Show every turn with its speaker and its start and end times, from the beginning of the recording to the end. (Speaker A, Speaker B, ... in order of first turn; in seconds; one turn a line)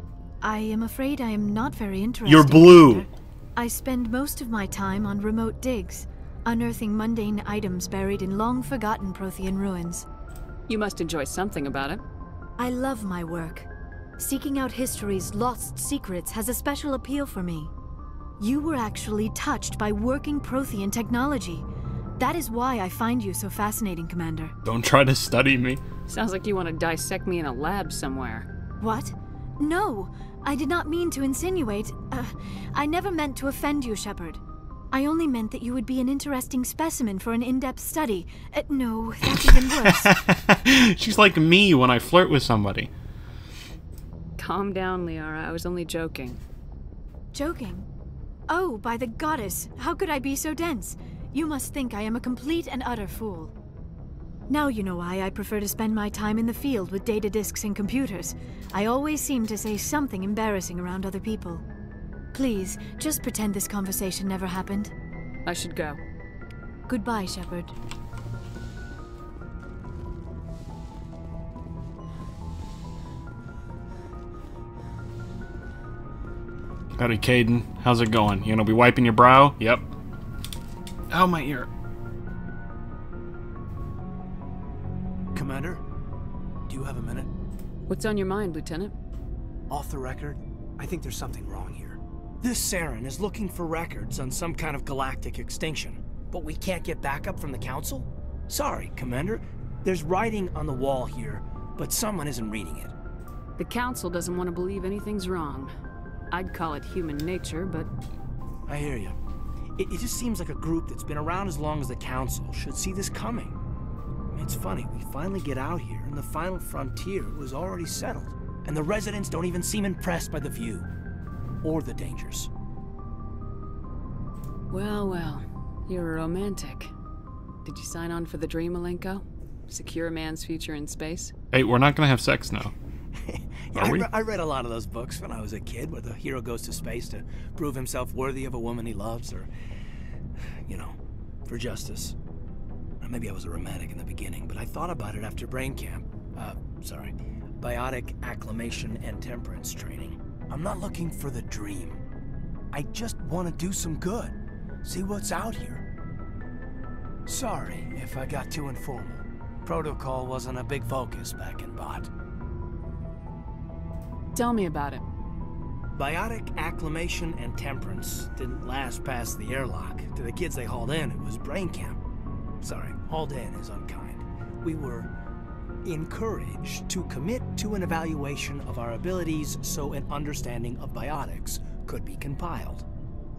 Speaker A: 0.4-10.1
Speaker B: 2.2-3.1
Speaker C: 10.7-12.0
Speaker A: 12.6-17.7
Speaker A: 18.4-24.5
Speaker B: 24.6-25.8
Speaker C: 26.1-28.5
Speaker A: 28.8-40.2
Speaker B: 39.3-42.9
Speaker C: 44.4-46.4
Speaker A: 47.3-47.9
Speaker A: 48.5-53.5
Speaker A: 54.5-61.6
Speaker A: 62.3-64.9
Speaker C: 65.4-66.0
Speaker A: 66.9-67.8
Speaker B: 76.9-79.9
Speaker B: 81.1-81.7
Speaker D: 85.3-85.8
Speaker D: 86.7-87.3
Speaker C: 87.9-88.9
Speaker D: 89.7-102.9
Speaker C: 103.6-105.7
Speaker C: 106.3-107.9
Speaker D: 108.7-109.2
Speaker D: 109.8-113.6
Speaker D: 114.3-120.9
Speaker D: 121.6-122.5
Speaker C: 124.7-126.9
Speaker C: 127.6-131.3
Speaker B: 131.5-132.7
Speaker D: 133.3-139.5
Speaker B: 133.8-134.1
Speaker D: 140.7-142.2
Speaker D: 143.0-152.0
Speaker D: 152.7-155.8
Speaker D: 157.3-162.1
Speaker C: 164.3-165.0
Speaker D: 165.9-172.0
Speaker D: 172.6-175.1
Speaker D: 175.8-182.8